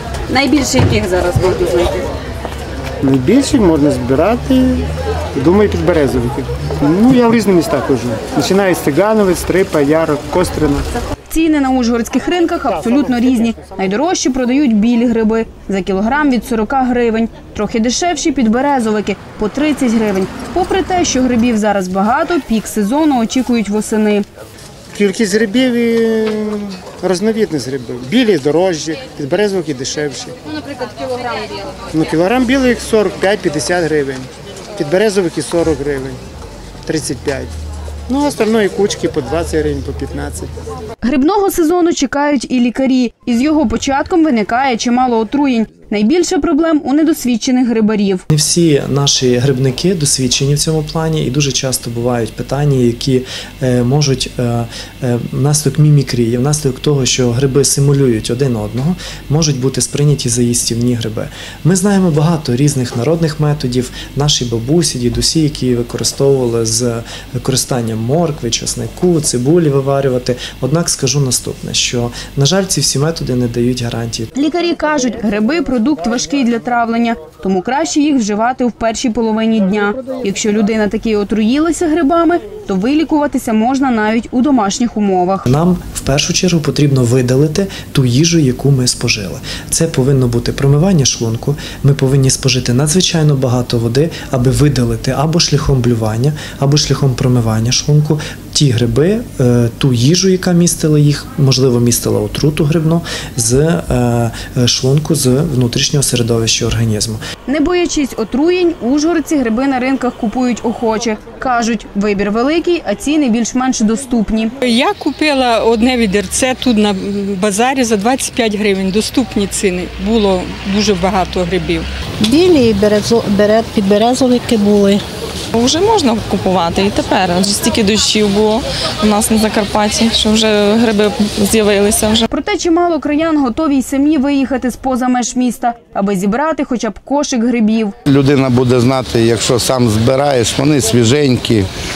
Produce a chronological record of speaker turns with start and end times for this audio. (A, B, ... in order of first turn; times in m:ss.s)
0:00.3-0:01.9 A
0:03.0-0:10.9 B
0:11.3-0:24.2 A
0:12.8-0:13.6 B
0:24.9-0:30.3 B
0:31.9-0:36.2 B
0:36.8-0:37.5 B
0:38.1-0:40.5 B
0:41.0-0:48.2 A
0:48.3-1:14.3 C
1:14.3-1:25.4 A
1:25.4-1:47.2 C
1:47.5-1:54.5 A
1:54.6-2:01.9 D
2:02.2-2:05.0 E
2:05.5-2:12.2 F
2:12.3-2:17.9 A
2:18.1-2:21.6 G